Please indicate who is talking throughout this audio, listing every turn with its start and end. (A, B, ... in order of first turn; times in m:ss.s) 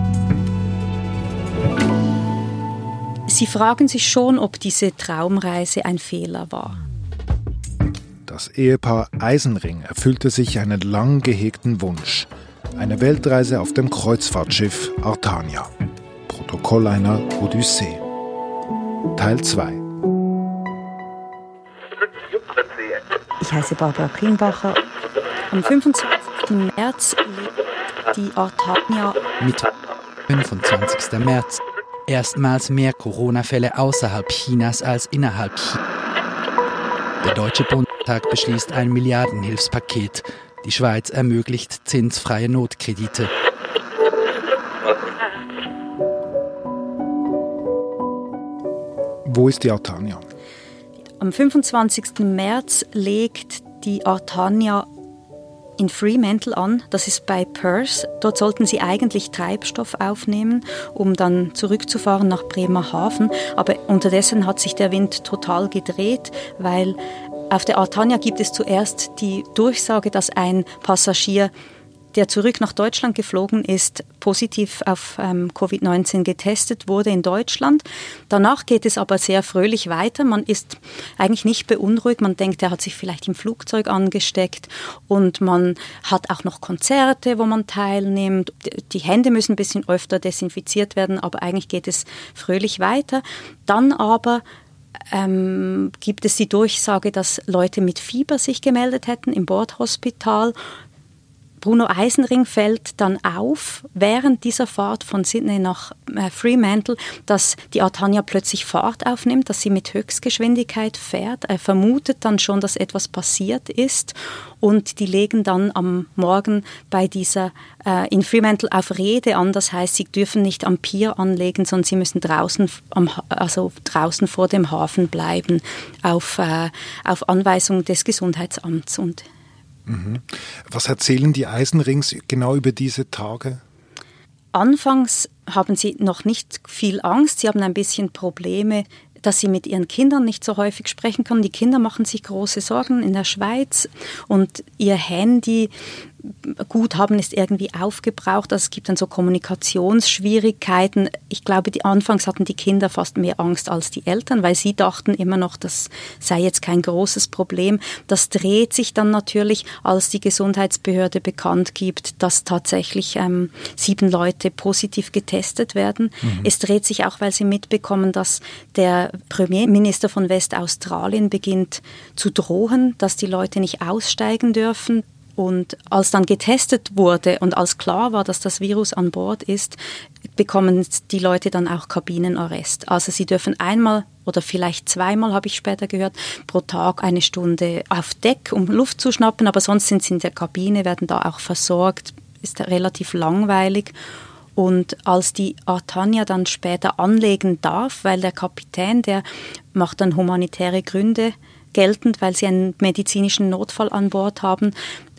0:03.3-0:06.8 A
0:08.2-0:15.7 B
0:16.3-0:18.0 B
0:19.2-0:19.8 B
0:23.4-0:24.8 A
0:25.5-0:27.5 A
0:28.1-0:29.2 A
0:29.4-0:29.7 C
0:30.3-0:35.8 C
0:37.2-0:43.3 C
0:49.2-0:50.2 B
0:51.2-0:54.9 A
0:55.8-1:07.0 A
1:07.5-1:11.5 A
1:12.1-1:34.4 A
1:35.1-1:40.5 A
1:41.6-2:09.2 A
2:09.9-2:13.6 B
2:14.5-2:25.7 A
2:26.2-2:59.8 A
3:00.3-3:14.0 A
3:14.6-3:24.7 A